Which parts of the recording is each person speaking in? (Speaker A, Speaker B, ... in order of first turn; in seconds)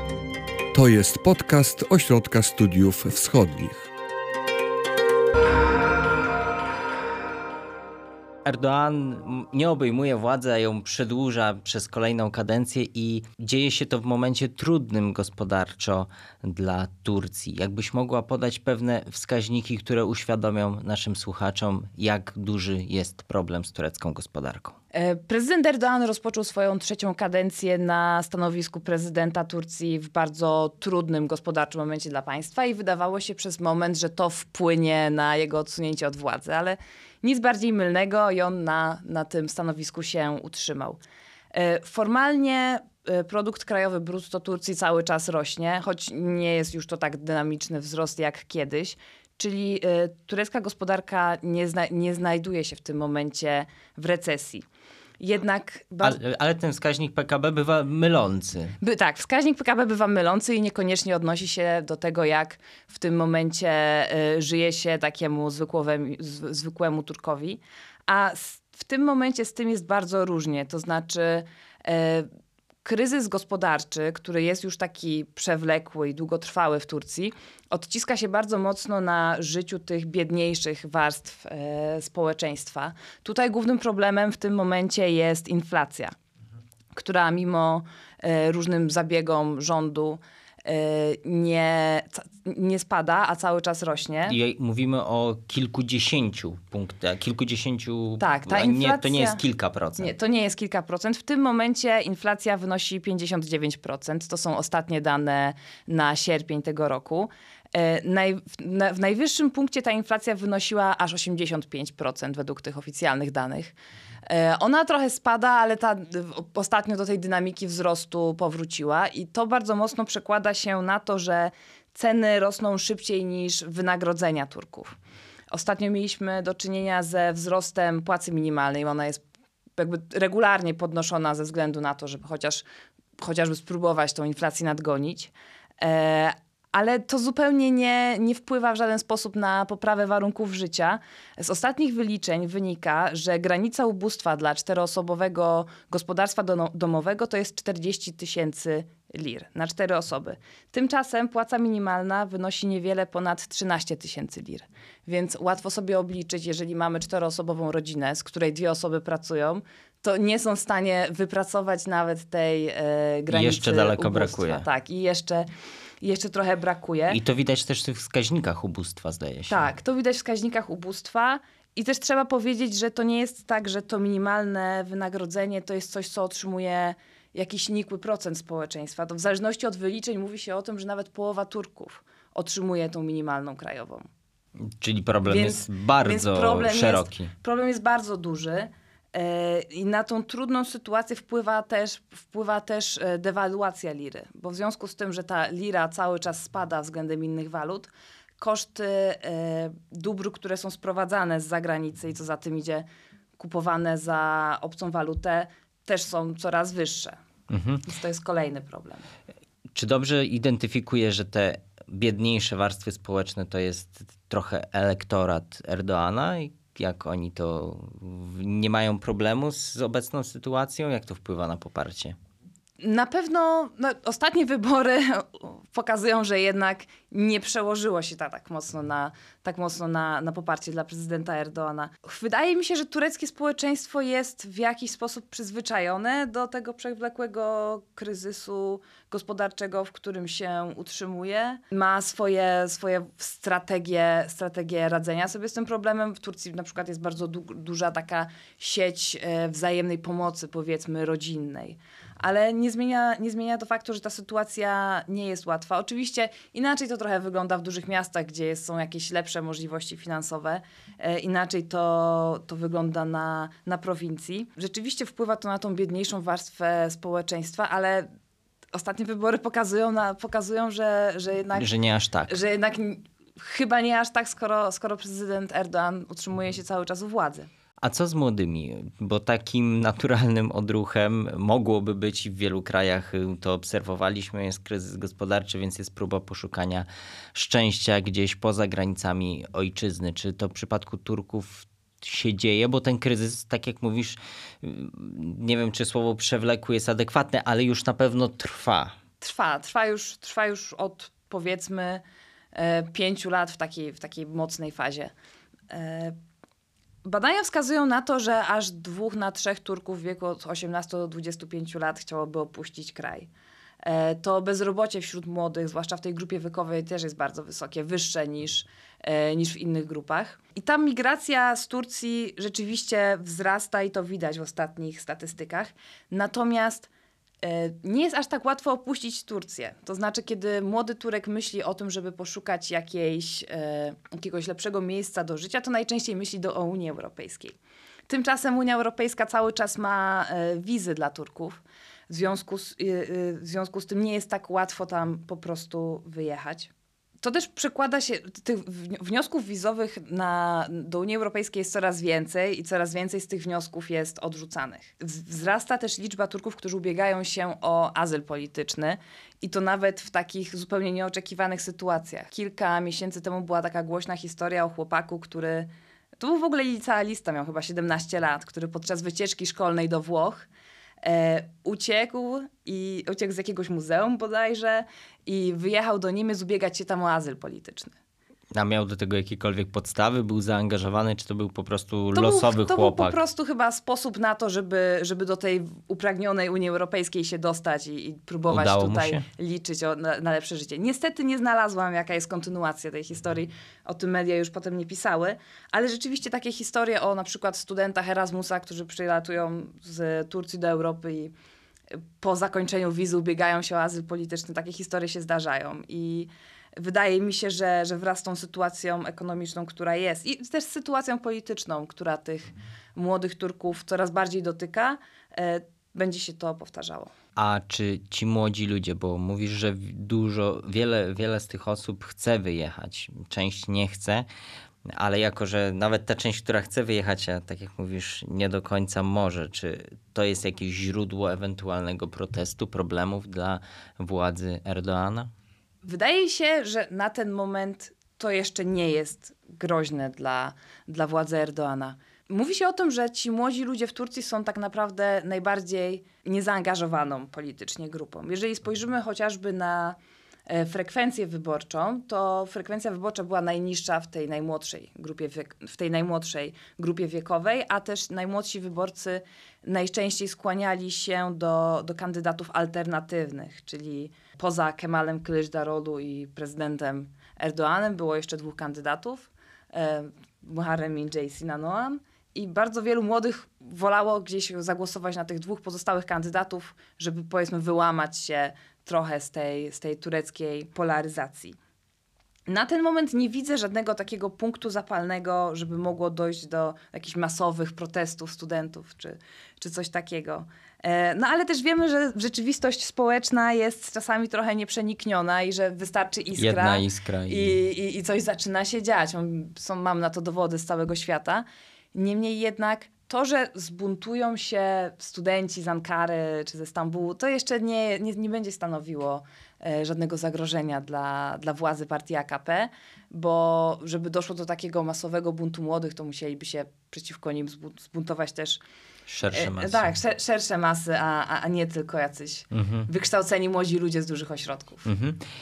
Speaker A: 0.7-3.9
Speaker B: 8.4-24.8, 56.0-58.8, 94.2-100.1, 163.3-164.7, 167.1-169.7, 184.6-187.3, 207.5-207.9, 209.7-222.2, 271.6-272.4, 277.8-298.9, 378.5-383.2, 388.5-389.2, 417.4-424.3, 424.9-435.3, 496.4-497.6, 519.1-519.9, 522.5-522.9, 524.8-525.2
Speaker C: 24.9-41.0, 41.5-54.6, 55.2-56.2, 58.8-72.3, 72.8-86.2, 86.9-94.4, 98.2-99.4, 100.0-113.7, 114.2-124.9, 125.5-129.2, 129.8-132.7, 133.2-165.5, 166.0-167.2, 169.5-184.1, 185.2-202.9, 203.4-207.2, 207.8-209.1, 222.8-268.1, 268.7-271.7, 272.3-277.5, 299.2-305.1, 305.7-306.2, 307.0-313.3, 313.8-326.9, 327.4-337.6, 338.1-370.5, 371.0-377.9, 382.1-401.3, 401.9-417.1, 435.8-481.6, 482.5-518.6, 519.3-524.9